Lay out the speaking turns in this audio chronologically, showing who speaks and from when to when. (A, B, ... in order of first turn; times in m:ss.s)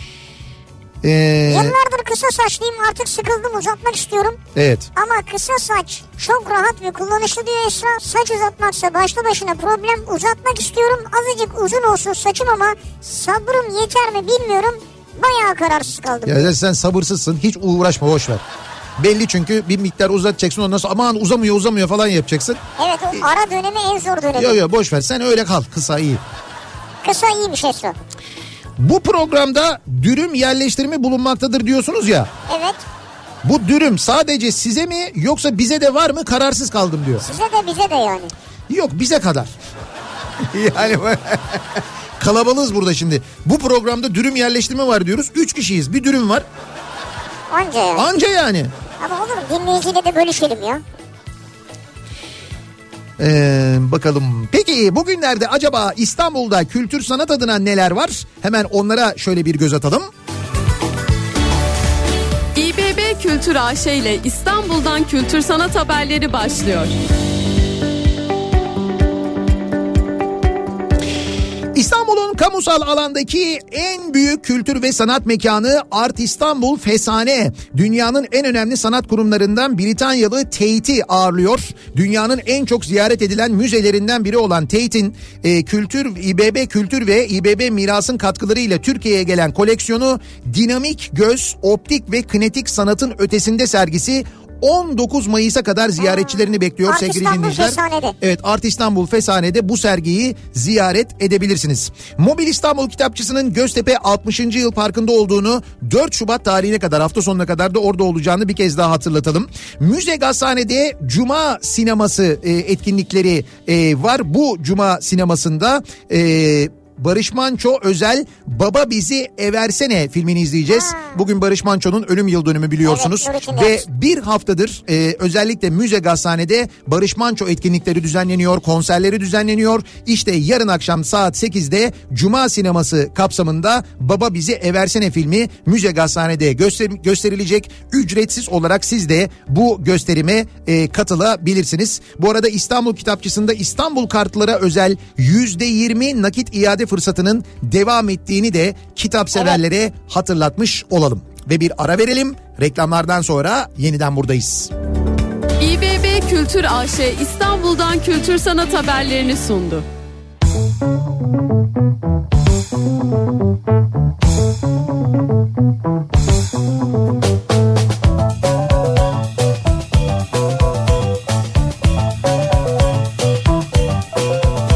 0:01.0-0:01.8 A
0:01.5-0:04.4 B
0:04.5-0:04.9 A
0:05.0-0:16.5 B
0:16.2-0:18.4 A
0:19.0-0:22.6 A
0:22.8-0:24.6 B
0:24.4-0:26.2 A
0:27.0-0:28.0 B
0:28.8-0:32.3 A
0:32.5-0:32.8 B
0:33.4-0:37.3 A
0:37.2-0:38.3 B
0:38.7-0:39.5 A
0:40.4-0:46.4 A
0:47.5-0:48.1 B
0:47.9-0:48.7 A
0:49.0-0:50.8 B
0:53.2-1:00.1 A
1:02.5-1:06.9 C
1:11.7-2:34.7 A
1:36.8-1:38.2 B
2:00.7-2:01.2 B
2:02.8-2:03.8 B
2:35.6-2:39.8 C